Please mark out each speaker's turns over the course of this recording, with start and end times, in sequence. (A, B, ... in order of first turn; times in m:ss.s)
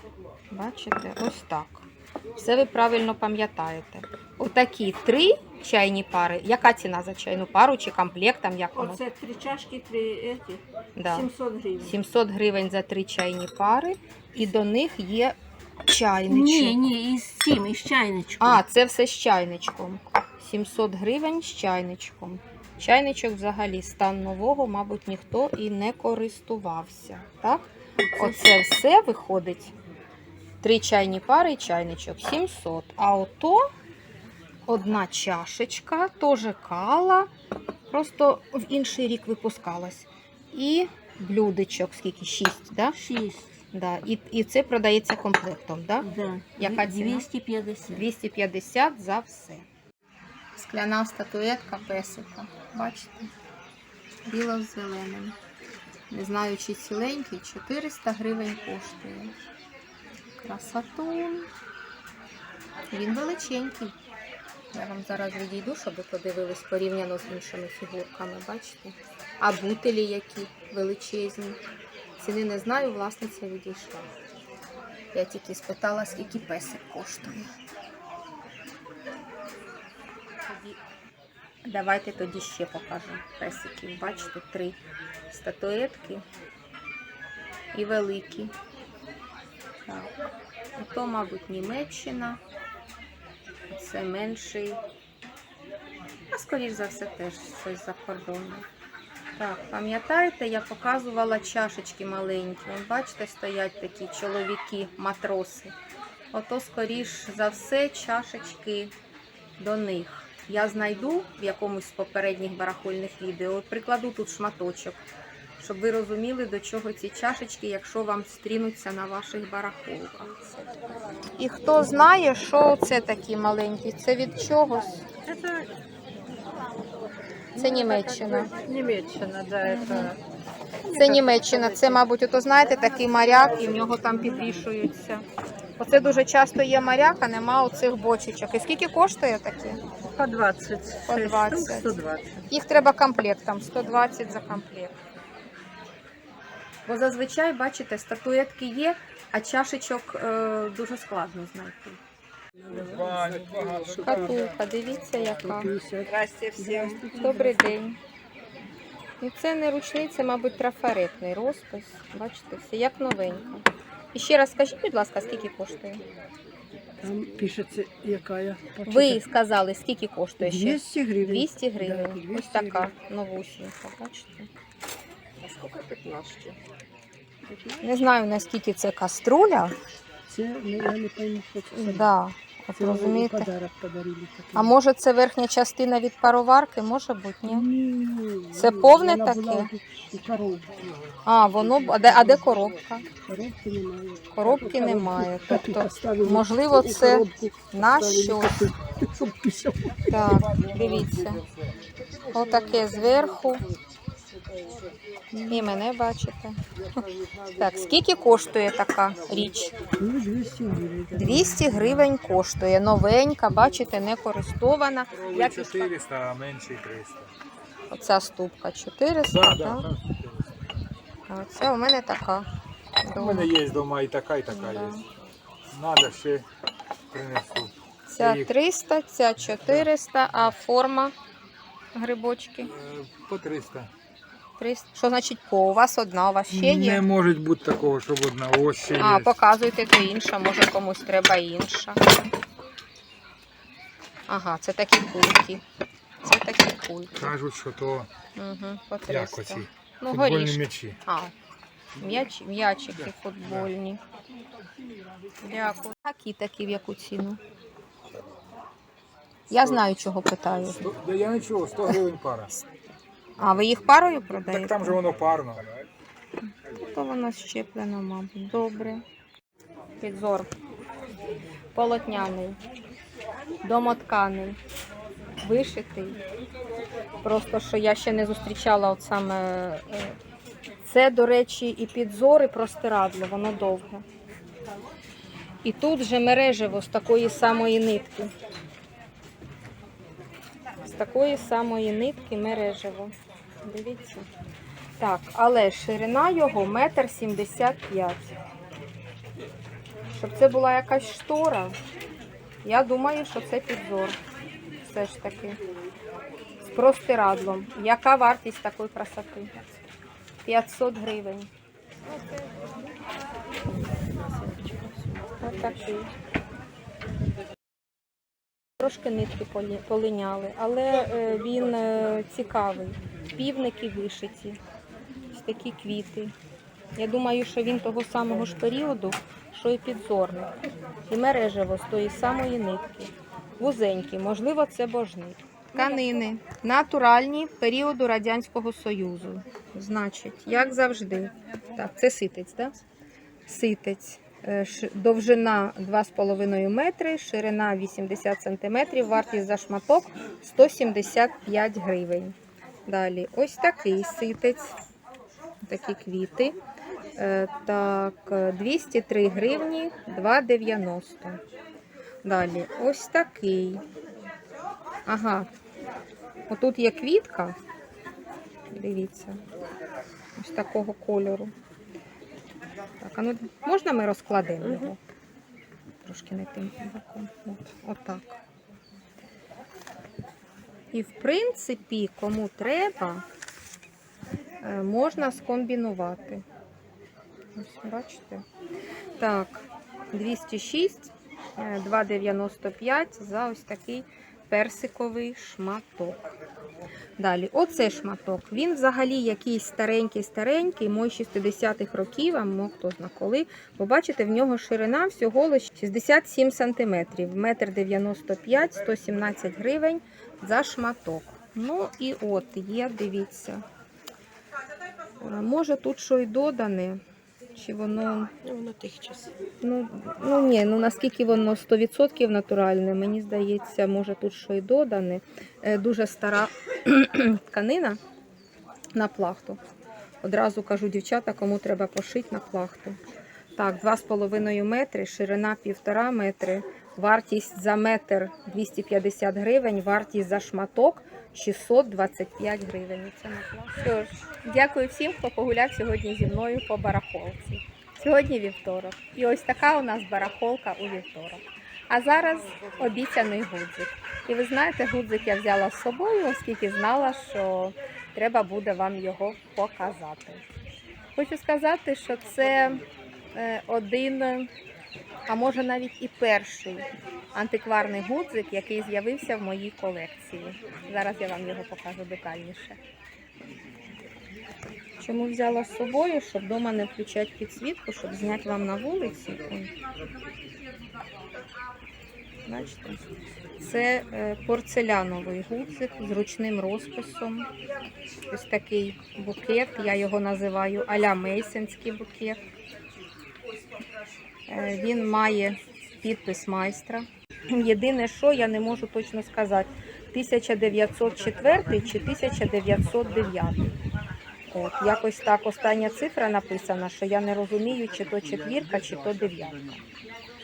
0:00.5-0:09.0 A
0:08.8-0:12.0 B
0:11.0-0:11.3 A
0:11.8-0:16.8 A
0:16.3-0:18.6 B
0:18.4-0:29.7 A
0:28.1-0:28.4 B
0:30.6-0:33.6 A
0:34.7-0:37.3 A
0:37.9-0:43.0 A
0:42.9-0:43.5 B
0:43.7-0:47.3 A
0:46.0-0:48.1 B
0:47.9-0:49.6 A
0:50.5-0:53.3 A
0:54.3-0:55.4 A
0:56.1-0:59.4 A
1:00.4-1:01.5 A
1:02.9-1:04.0 A
1:04.7-1:11.6 A
1:12.2-1:14.1 A
1:15.1-1:17.5 A
1:20.4-1:20.8 A
1:21.6-1:26.2 A
1:27.7-1:28.5 A
1:29.8-1:30.1 A
1:30.8-1:32.4 A
1:33.7-1:34.8 A
1:36.3-1:38.6 A
1:39.4-1:45.7 A
1:46.3-1:48.9 A
1:49.6-1:55.0 A
1:55.6-2:00.6 A
2:01.4-2:05.0 A
2:05.2-2:05.7 B
2:07.5-2:08.5 A
2:07.5-2:10.2 B
2:09.6-2:10.1 A
2:10.9-2:12.0 B
2:10.9-2:15.2 A
2:13.1-2:14.4 B
2:15.8-2:19.8 A
2:20.1-2:22.4 B
2:21.0-2:22.0 A
2:22.5-2:25.0 A
2:26.9-2:32.0 A
2:32.6-2:34.3 C
2:32.8-2:34.5 D
2:34.0-2:38.0 A
2:35.4-2:37.8 C
2:39.2-2:46.0 A
2:47.0-2:49.2 C
2:48.9-2:54.5 A
2:50.4-2:52.9 C
2:50.4-2:51.3 B
2:55.4-2:56.6 A
2:57.5-2:57.8 C
2:57.8-2:59.8 A
3:00.3-3:02.1 C
3:01.7-3:03.5 A
3:02.8-3:04.8 C
3:04.5-3:07.7 A
3:07.4-3:10.9 C
3:08.5-3:09.7 A
3:11.2-3:13.1 A
3:13.2-3:20.2 C
3:14.3-3:18.7 A
3:20.1-3:21.4 A
3:22.3-3:23.6 A
3:25.3-3:26.6 A
3:27.5-3:29.8 A
3:30.0-3:32.1 C
3:31.1-3:35.9 A
3:35.1-3:37.3 D
3:37.9-3:39.9 A
3:39.3-3:40.5 D
3:41.3-3:42.5 A
3:43.0-3:43.5 A
3:43.2-3:45.0 D
3:44.5-3:45.0 A
3:45.7-3:46.4 D
3:47.1-3:47.7 D
3:48.1-3:51.1 A
3:48.2-3:48.5 D
3:51.9-3:52.7 A
3:52.8-3:53.9 D
3:54.6-3:57.0 A
3:56.5-3:59.3 D
3:59.0-4:02.2 A
4:04.3-4:05.6 A
4:06.2-4:07.3 A
4:07.2-4:08.1 D
4:08.4-4:11.3 A
4:09.1-4:11.0 D
4:12.0-4:14.0 A
4:15.4-4:17.4 A
4:19.5-4:21.0 A
4:20.9-4:22.5 D
4:23.4-4:25.0 A
4:24.4-4:25.7 D
4:26.8-4:29.0 A
4:30.0-4:30.5 A
4:31.8-4:32.6 A
4:33.6-4:34.6 A
4:35.4-4:36.2 A
4:37.2-4:40.2 A
4:40.8-4:44.0 A
4:45.6-4:48.3 A
4:50.8-4:54.3 A
4:55.0-4:58.4 A
5:00.1-5:01.7 A
5:02.6-5:04.2 A
5:04.8-5:05.6 A
5:06.7-5:09.6 A
5:10.4-5:11.5 A
5:14.2-5:15.2 B
5:15.4-5:16.1 A
5:18.8-5:24.6 A
5:25.3-5:26.3 A
5:27.0-5:30.5 A
5:31.1-5:42.8 A
5:43.5-5:54.8 A
5:55.6-5:56.6 A
5:57.2-6:01.4 A
6:02.2-6:03.8 A
6:05.0-6:05.5 A
6:06.5-6:07.6 A
6:08.7-6:09.4 A
6:10.4-6:11.5 A
6:13.0-6:15.0 A
6:16.0-6:18.4 A
6:20.9-6:23.2 A
6:24.6-6:26.4 A
6:27.5-6:28.4 A
6:29.2-6:36.4 A
6:37.2-6:53.6 A
6:55.2-6:57.0 A
6:57.5-6:58.3 A
6:58.4-6:59.3 B
6:59.6-7:08.0 A
7:08.9-7:09.6 A
7:10.2-7:13.0 A
7:13.6-7:40.4 A
7:41.2-7:44.5 A
7:45.3-7:52.8 A
7:55.0-7:59.7 A
8:02.4-8:03.0 A
8:03.6-8:07.5 A
8:08.3-8:12.4 A
8:14.5-8:23.7 A
8:24.5-8:29.8 A